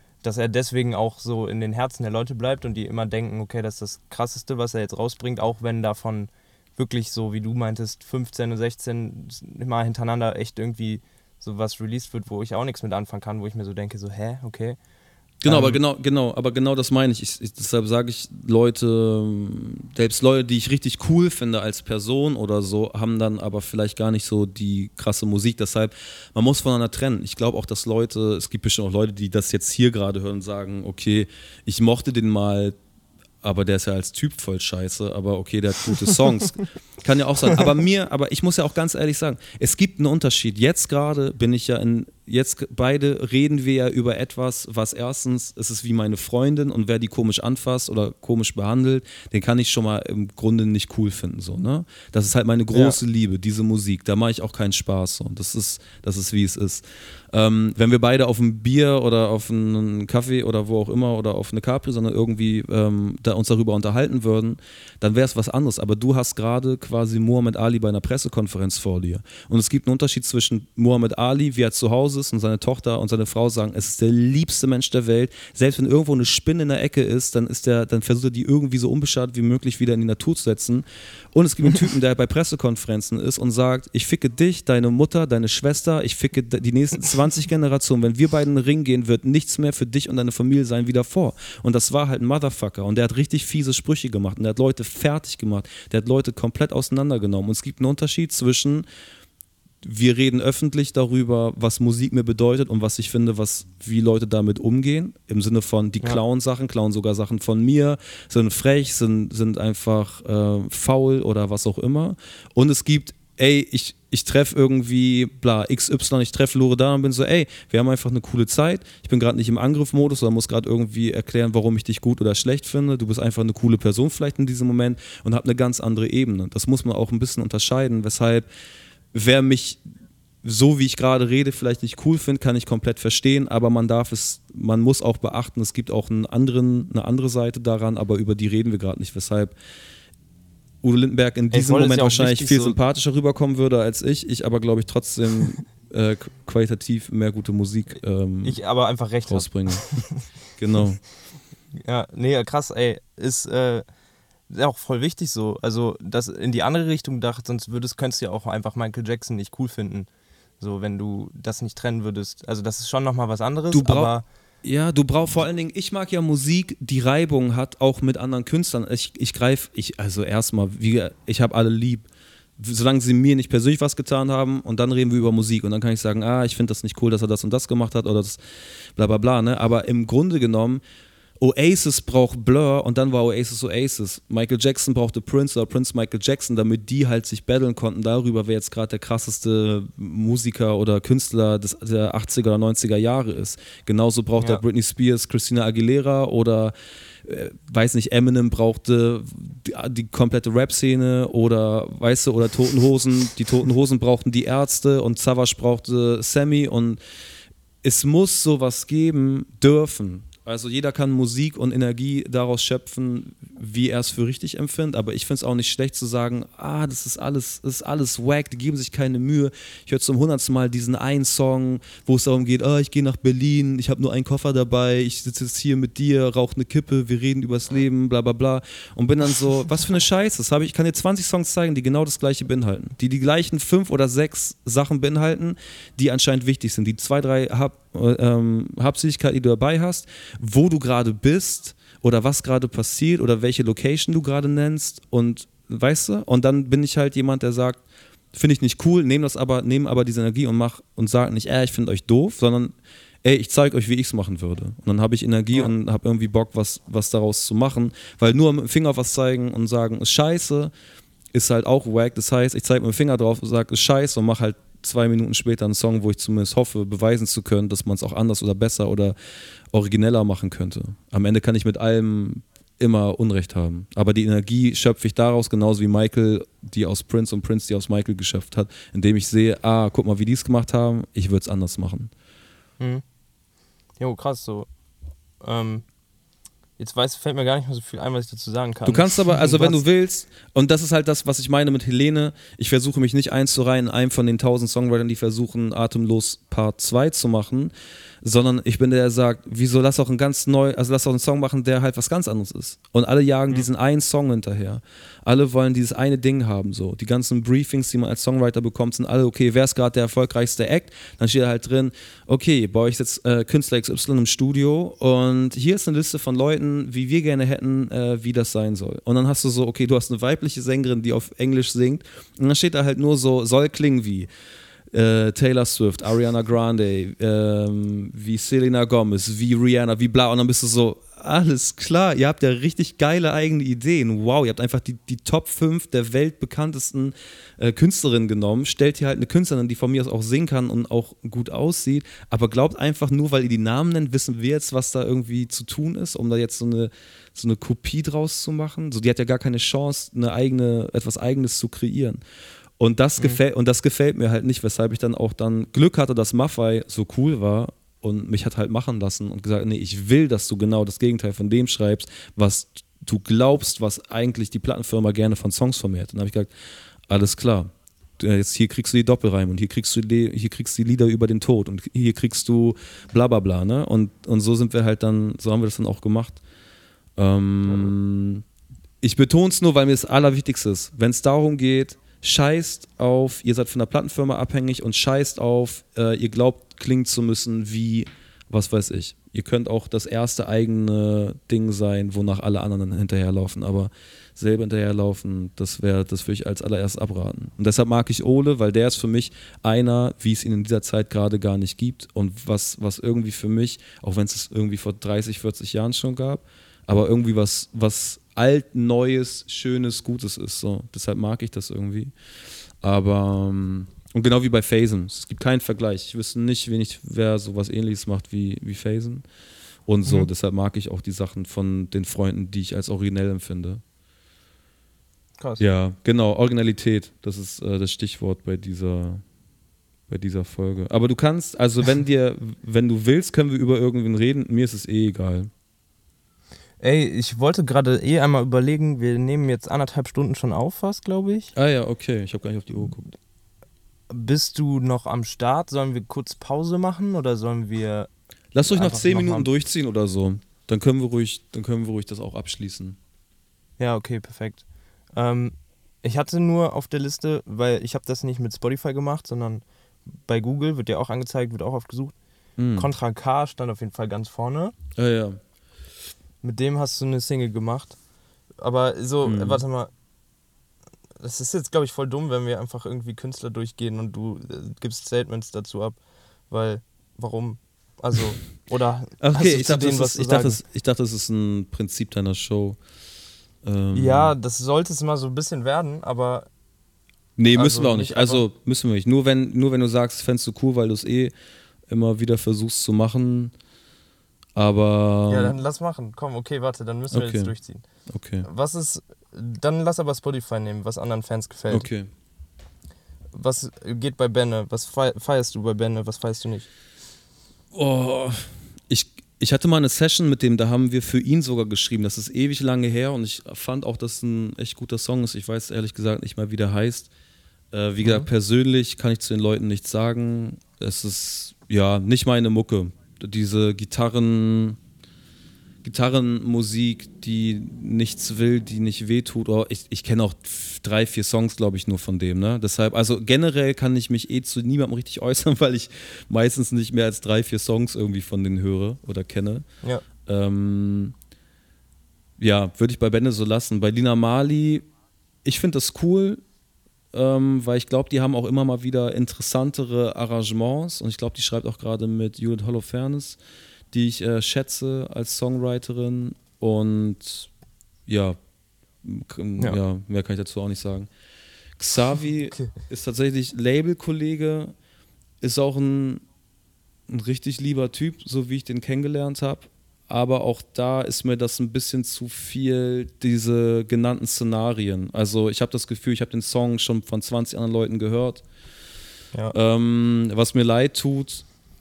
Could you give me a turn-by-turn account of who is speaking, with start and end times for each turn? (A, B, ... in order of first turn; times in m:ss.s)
0:00.2-0:14.8 A
0:15.4-0:32.8 B
0:15.5-0:15.8 A
0:33.4-1:38.8 B
0:52.7-0:53.0 A
1:39.8-2:08.5 B
2:09.1-2:09.8 B
2:10.4-2:19.5 B
2:20.8-2:28.6 B
2:21.5-2:22.8 A
2:28.4-2:30.3 A
2:29.2-2:29.9 B
2:30.5-2:31.0 B
2:31.7-2:33.8 A
2:34.5-2:40.1 A
2:40.6-2:44.2 A
2:43.7-2:44.1 B
2:44.6-2:52.1 B
2:52.6-2:58.4 B
2:59.0-3:00.8 B
3:01.4-3:27.0 B
3:27.8-4:07.8 B
4:08.3-4:20.7 B
4:21.3-4:29.2 B
4:29.7-4:42.1 B
4:44.0-4:44.7 A
4:45.4-4:45.8 A
4:46.8-4:49.8 A
4:48.8-5:24.3 B
5:24.9-5:52.2 B
5:52.8-6:06.5 B
6:07.1-6:16.4 B
6:17.2-6:18.4 B
6:19.0-6:52.1 B
6:52.8-6:59.2 B
6:59.8-7:03.8 B
7:05.6-7:09.2 B
7:10.1-7:15.5 B
7:16.8-7:21.5 A
7:21.5-7:23.2 B
7:24.1-7:28.1 A
7:28.5-7:33.0 B
7:28.6-7:29.5 A
7:33.8-7:34.6 A
7:35.1-7:42.1 A
7:42.6-7:42.9 B
7:42.8-7:44.7 A
7:45.0-7:45.4 B
7:46.4-7:48.0 A
7:48.6-7:49.9 A
7:49.2-7:49.6 B
7:51.2-7:56.0 A
7:56.5-8:00.6 A
7:59.2-8:02.8 B
8:03.6-8:04.3 B
8:03.9-8:06.5 A
8:07.4-8:11.3 B
8:07.5-8:08.4 A
8:11.9-8:13.5 B
8:14.6-8:15.5 B
8:15.3-8:17.8 A
8:17.1-8:17.5 B
8:18.1-8:18.5 B
8:18.4-8:21.9 A
8:21.7-8:22.1 B
8:23.3-8:26.7 A
8:27.7-8:37.1 B
8:37.7-8:44.8 B
8:38.0-8:38.3 A
8:45.8-8:59.6 B
9:00.2-9:01.1 B
9:02.4-9:04.8 B
9:05.4-9:06.4 B
9:07.1-9:13.4 B
9:13.9-9:17.5 B
9:18.1-9:18.4 B
9:19.0-9:21.1 B
9:21.8-9:24.7 B
9:25.4-9:26.2 B
9:27.1-9:38.4 B
9:39.5-9:41.4 B